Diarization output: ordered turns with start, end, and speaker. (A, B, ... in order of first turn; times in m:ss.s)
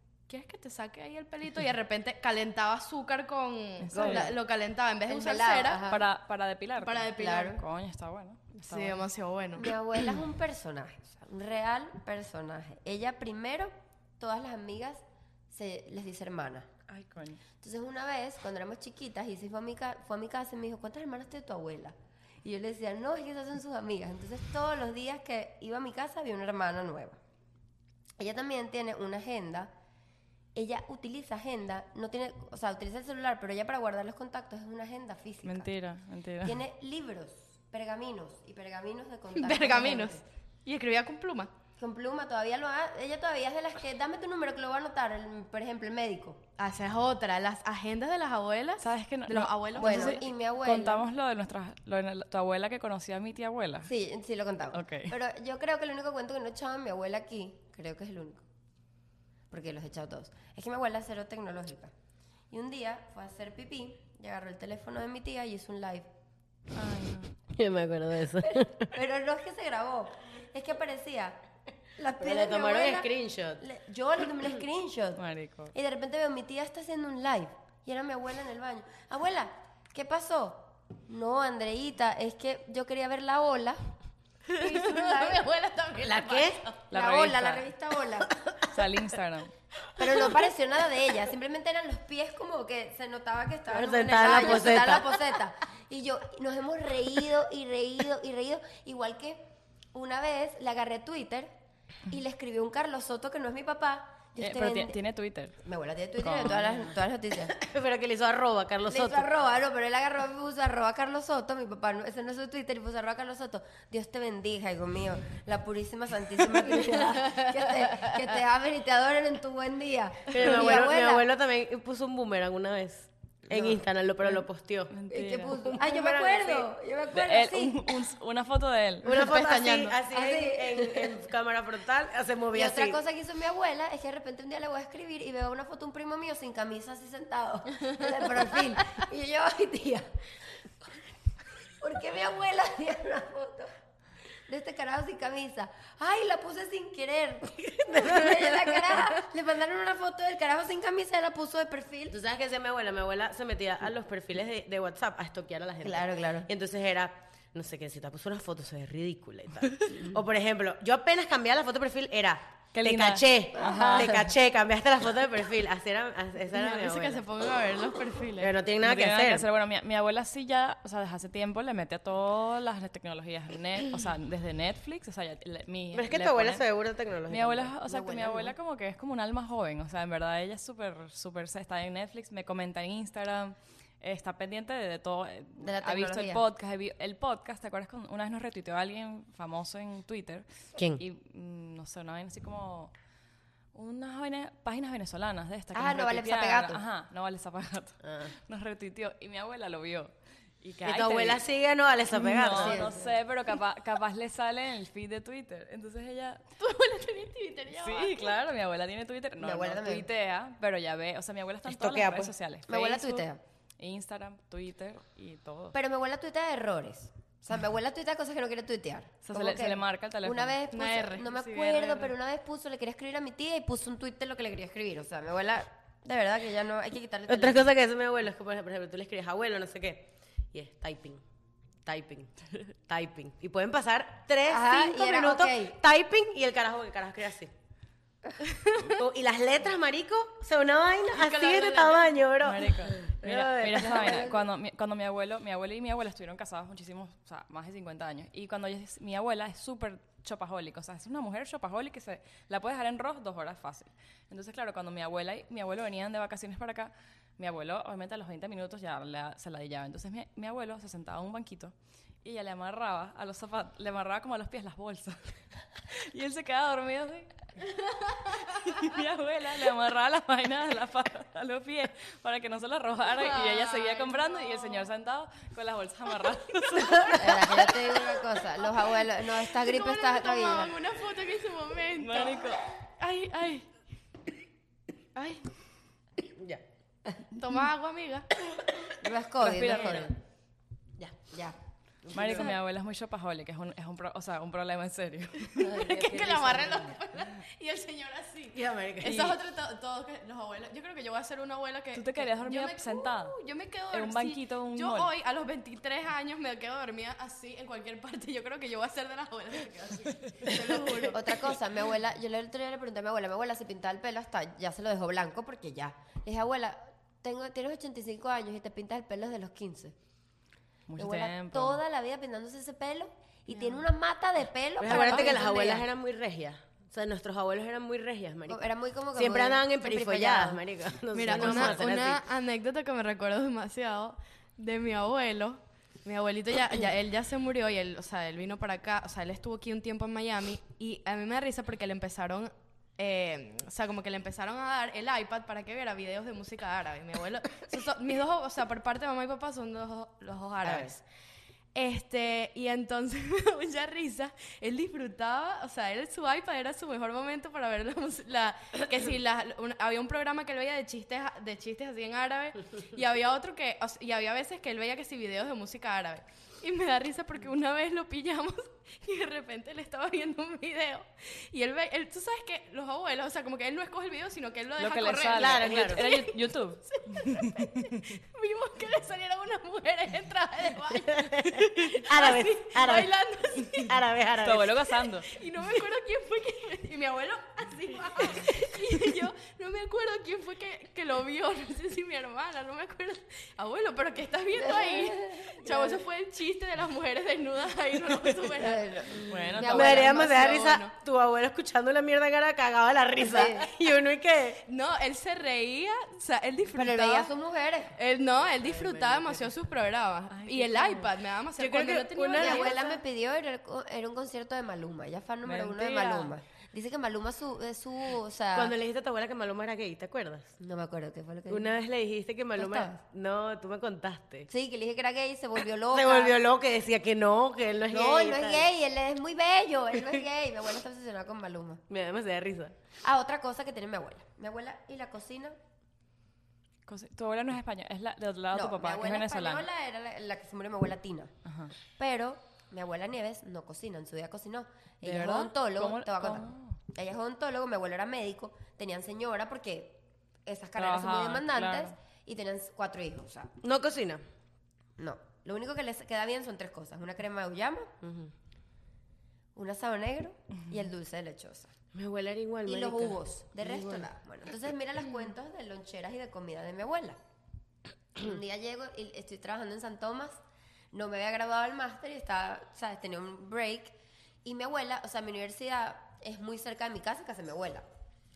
0:00.3-0:05.8 A
0:03.8-0:04.3 B
0:03.9-0:04.4 C
0:05.1-0:06.0 C
0:05.9-0:09.0 B
0:06.8-0:07.6 A
0:07.2-0:07.6 C
0:08.6-0:09.7 A
0:09.6-0:16.7 C
0:16.9-0:17.4 B
0:17.6-0:27.2 C
0:28.2-0:29.7 C
0:30.5-0:35.7 C
0:35.4-0:36.6 B
0:36.4-0:40.2 C
0:39.3-0:41.5 A
0:41.8-0:46.4 C
0:46.6-0:50.2 A
0:48.8-0:53.9 B
0:49.8-0:51.0 C
0:53.8-0:58.4 C
0:54.7-0:55.1 B
0:59.5-1:01.9 C
1:02.5-1:06.1 C
1:06.7-1:07.3 B
1:07.5-1:08.9 D
1:08.4-1:11.4 C
1:12.0-1:15.2 C
1:12.2-1:13.6 D
1:15.2-1:15.7 B
1:15.7-1:23.8 C
1:24.5-1:26.6 A
1:24.5-1:25.5 C
1:26.0-1:26.7 D
1:26.9-1:27.6 B
1:26.9-1:28.4 C
1:28.6-1:29.5 B
1:30.0-1:39.4 C
1:33.7-1:35.2 D
1:39.9-1:41.5 C
1:42.1-1:45.0 C
1:44.4-1:45.6 B
1:45.6-1:47.5 C
1:46.2-1:46.9 B
1:47.5-1:49.3 D
1:48.9-2:01.2 C
2:00.3-2:04.9 D
2:03.5-2:03.8 C
2:04.4-2:05.6 B
2:05.1-2:07.9 C
2:05.6-2:06.7 D
2:07.1-2:09.2 B
2:09.0-2:10.0 A
2:09.0-2:13.0 D
2:10.1-2:11.2 C
2:12.5-2:20.1 C
2:21.7-2:23.7 C
2:24.5-2:32.2 C
2:27.6-2:29.2 D
2:32.1-2:47.2 D
2:35.8-2:36.5 C
2:42.7-2:44.3 B
2:46.5-2:48.5 A
2:48.4-2:49.4 D
2:48.8-2:56.6 B
2:55.9-2:57.7 D
2:57.3-3:12.9 B
2:57.9-2:58.5 C
3:05.6-3:06.4 C
3:10.8-3:11.0 D
3:13.7-3:21.4 B
3:15.7-3:16.8 C
3:18.0-3:18.3 D
3:20.8-3:22.9 D
3:22.1-3:26.4 B
3:22.5-3:23.1 C
3:26.6-3:28.4 A
3:27.8-3:33.2 B
3:29.4-3:30.0 C
3:31.6-3:32.3 D
3:32.7-3:33.4 C
3:33.8-3:35.7 B
3:35.7-3:47.7 C
3:39.2-3:40.6 B
3:40.7-3:41.3 A
3:41.3-3:42.1 B
3:47.3-3:51.2 D
3:51.8-3:57.5 D
3:54.5-3:55.8 C
3:58.8-4:04.3 D
4:01.1-4:02.2 A
4:02.4-4:25.3 B
4:04.0-4:04.3 C
4:25.9-4:27.3 B
4:27.7-4:28.2 A
4:28.4-4:37.7 B
4:33.1-4:34.9 A
4:37.1-4:40.7 C
4:38.8-4:42.5 A
4:42.0-4:42.6 B
4:43.0-4:43.7 A
4:45.1-4:45.5 A
4:46.2-4:47.1 D
4:47.3-4:48.3 A
4:49.0-4:50.1 C
4:49.4-4:50.1 B
4:51.2-4:51.6 C
4:52.0-4:52.6 D
4:52.1-4:55.9 B
4:55.6-5:11.4 A
4:55.7-4:57.0 D
4:56.0-4:56.4 C
4:58.5-4:59.3 D
4:59.0-4:59.4 B
5:01.9-5:03.4 B
5:03.9-5:05.1 B
5:11.1-5:19.9 C
5:20.9-5:21.8 B
5:21.0-5:25.8 C
5:23.5-5:23.8 A
5:24.8-5:32.2 D
5:24.9-5:25.4 A
5:28.5-5:30.6 C
5:31.1-5:51.0 A
5:31.3-5:31.8 C
5:50.6-5:50.9 D
5:51.7-6:24.0 A
6:14.8-6:17.6 B
6:15.3-6:16.0 D
6:20.9-6:23.1 D
6:23.8-6:24.8 D
6:24.4-6:25.3 B
6:25.2-6:40.9 A
6:34.6-6:36.0 C
6:38.6-6:40.2 C
6:39.2-6:40.1 B
6:39.6-6:44.6 D
6:43.2-6:43.7 C
6:44.7-6:47.3 A
6:46.7-6:47.9 C
6:48.0-6:52.9 A
6:48.6-6:49.5 D
6:50.3-6:51.1 B
6:51.6-6:53.0 D
6:52.3-6:58.7 C
6:55.4-6:56.3 B
6:58.5-7:00.5 D
7:00.6-7:01.7 C
7:01.5-7:04.5 D
7:02.6-7:03.0 C
7:04.5-7:06.4 C
7:05.9-7:08.7 D
7:07.9-7:11.8 C
7:11.9-7:12.8 D
7:13.0-7:15.6 C
7:16.9-7:19.6 B
7:18.5-7:21.3 C
7:21.4-7:21.7 B
7:22.0-7:33.5 C
7:25.1-7:26.8 B
7:30.8-7:31.9 B
7:33.6-7:34.2 D
7:35.0-7:37.9 C
7:38.0-7:38.3 D
7:39.5-7:41.7 C
7:41.9-7:44.1 D
7:42.6-7:47.2 C
7:48.2-7:50.4 C
7:50.9-7:53.9 C
7:54.4-7:57.8 C